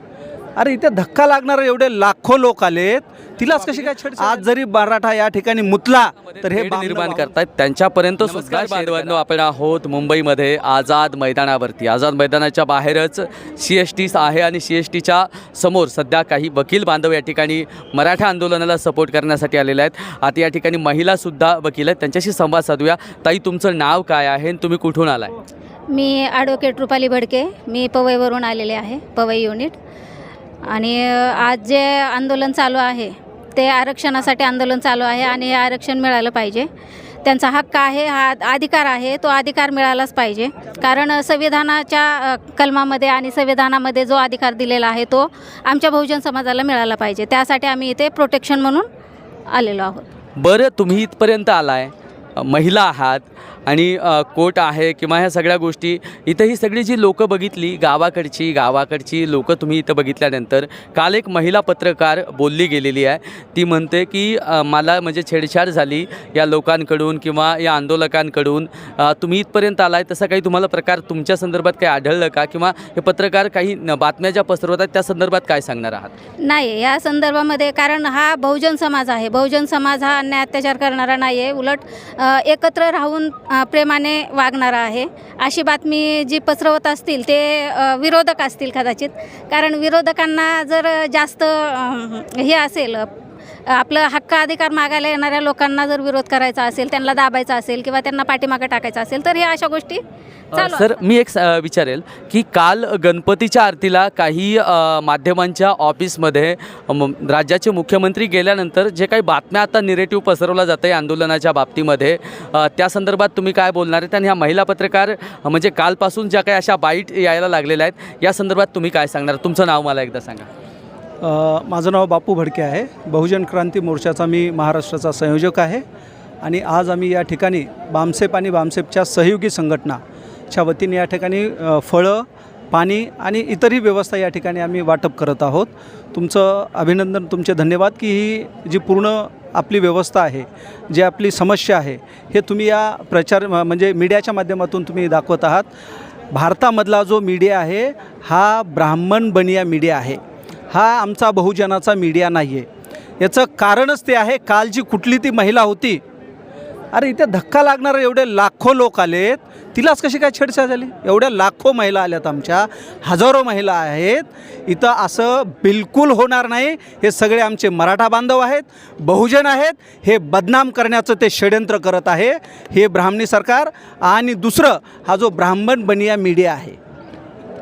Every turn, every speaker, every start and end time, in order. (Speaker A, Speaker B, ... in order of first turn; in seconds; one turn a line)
Speaker A: 0.6-7.3
Speaker B: 3.5-4.4
Speaker B: 6.3-25.3
Speaker A: 8.2-9.1
Speaker C: 25.9-29.8
Speaker C: 30.6-36.7
Speaker C: 37.2-48.9
Speaker C: 49.5-50.1
Speaker B: 50.4-76.1
Speaker C: 76.4-93.1
Speaker C: 93.7-100.0
Speaker C: 100.5-100.9
Speaker B: 100.5-120.5
Speaker A: 121.2-125.8
Speaker A: 126.4-145.7
Speaker A: 146.3-150.2
Speaker A: 150.7-152.7
Speaker A: 153.2-156.0
Speaker A: 156.9-176.8